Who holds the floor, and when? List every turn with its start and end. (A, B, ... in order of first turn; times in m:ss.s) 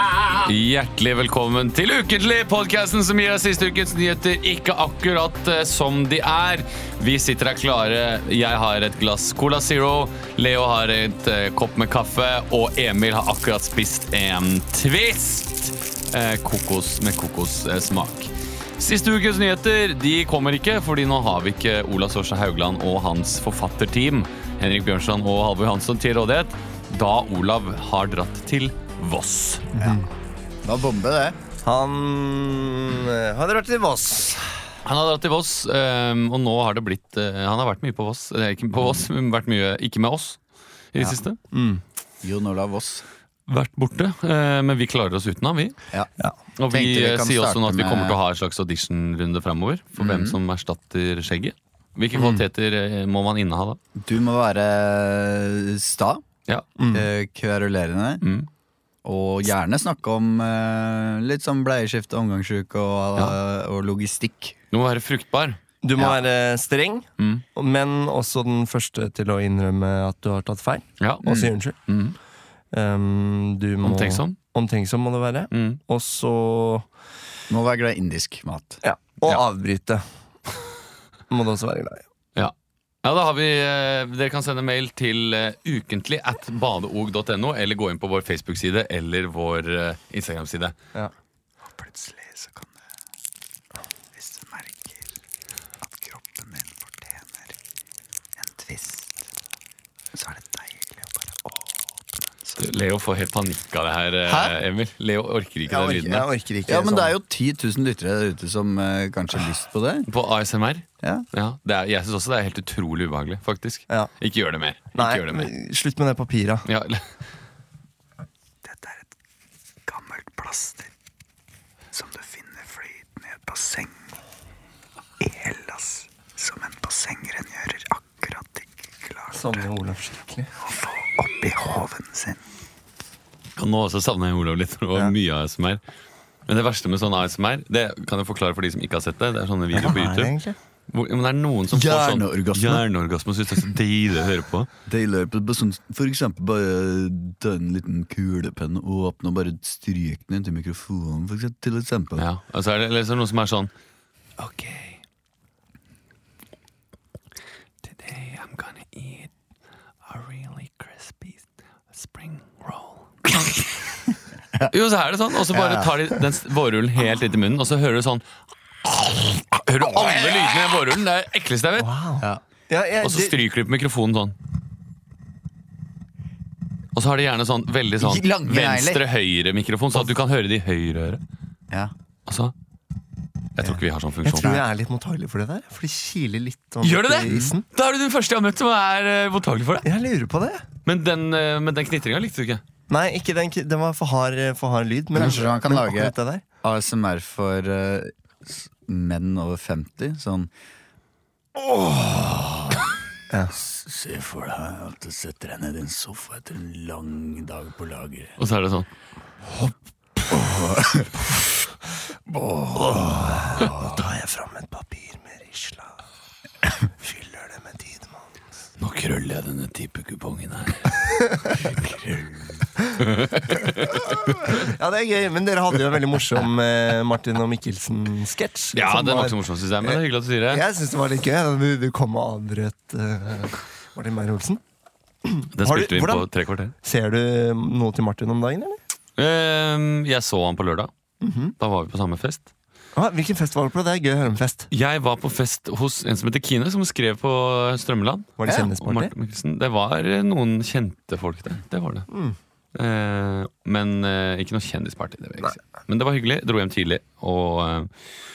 0:00.3-0:29.7 A
0:29.7-0:30.1 B
0:30.6-0:31.4 C
0:31.6-0:34.5 B
0:34.8-0:40.4 A
0:40.9-0:41.4 A
0:41.5-0:41.8 B
0:42.2-0:43.0 C
0:43.5-0:45.8 A
0:46.6-0:53.8 A
0:46.7-0:48.2 C
0:50.0-0:50.4 C
0:52.2-0:52.4 C
0:54.0-0:56.2 C
0:56.8-0:57.1 B
0:56.9-0:58.2 C
0:58.2-0:58.5 A
0:59.0-1:04.6 C
1:04.7-1:05.6 A
1:05.8-1:11.8 B
1:11.0-1:11.2 A
1:11.2-1:11.5 C
1:11.9-1:12.2 A
1:12.7-1:16.8 B
1:13.8-1:14.4 A
1:15.5-1:15.8 A
1:17.5-1:18.8 C
1:18.8-1:20.0 B
1:21.3-1:22.0 B
1:22.4-1:30.8 A
1:31.8-1:32.8 C
1:34.2-1:35.0 C
1:35.8-1:37.5 C
1:38.4-1:39.2 C
1:40.1-1:41.7 C
1:42.6-1:46.2 A
1:44.3-1:44.6 C
1:45.7-1:47.1 B
1:46.7-1:50.1 C
1:50.1-1:55.5 A
1:55.0-1:56.6 B
1:56.7-1:57.0 A
1:58.7-1:59.0 C
1:59.9-2:00.9 C
2:01.9-2:04.0 C
2:05.2-2:09.6 C
2:09.3-2:10.5 B
2:10.7-2:12.4 C
2:13.6-2:15.8 A
2:16.5-2:20.4 A
2:19.7-2:20.6 B
2:20.9-2:24.7 A
2:21.7-2:22.8 C
2:24.9-2:32.2 C
2:32.2-2:33.7 A
2:34.4-2:35.0 A
2:38.0-2:39.3 A
2:40.1-2:41.4 A
2:42.0-2:43.0 A
2:44.7-2:48.2 A
2:45.5-2:46.0 C
2:48.8-2:51.9 A
2:49.9-2:50.5 C
2:51.8-2:53.4 B
2:53.0-2:54.4 A
2:57.0-3:01.2 A
2:58.0-2:59.0 C
3:02.3-3:02.5 A
3:03.6-3:04.5 A
3:04.2-3:07.6 B
3:06.8-3:09.9 A
3:09.8-3:10.6 B
3:10.9-3:12.6 A
3:12.9-3:16.4 B
3:15.1-3:20.5 C
3:21.6-3:22.8 C
3:23.3-3:23.6 B
3:23.5-3:28.3 C
3:28.4-3:28.9 A
3:30.3-3:31.4 C
3:32.3-3:34.0 C
3:32.8-3:35.9 B
3:37.0-3:38.2 B
3:38.8-3:41.0 A
3:41.6-3:42.2 A
3:43.0-3:44.6 A
3:44.3-3:54.6 B
3:48.7-3:50.6 A
3:55.2-3:56.3 B
3:55.5-3:56.7 A
3:56.8-3:58.8 B
3:59.2-4:00.9 A
4:01.2-4:01.5 B
4:01.6-4:02.5 A
4:03.0-4:04.7 B
4:04.7-4:12.1 A
4:08.4-4:09.1 B
4:12.1-4:12.4 B
4:12.8-4:17.9 A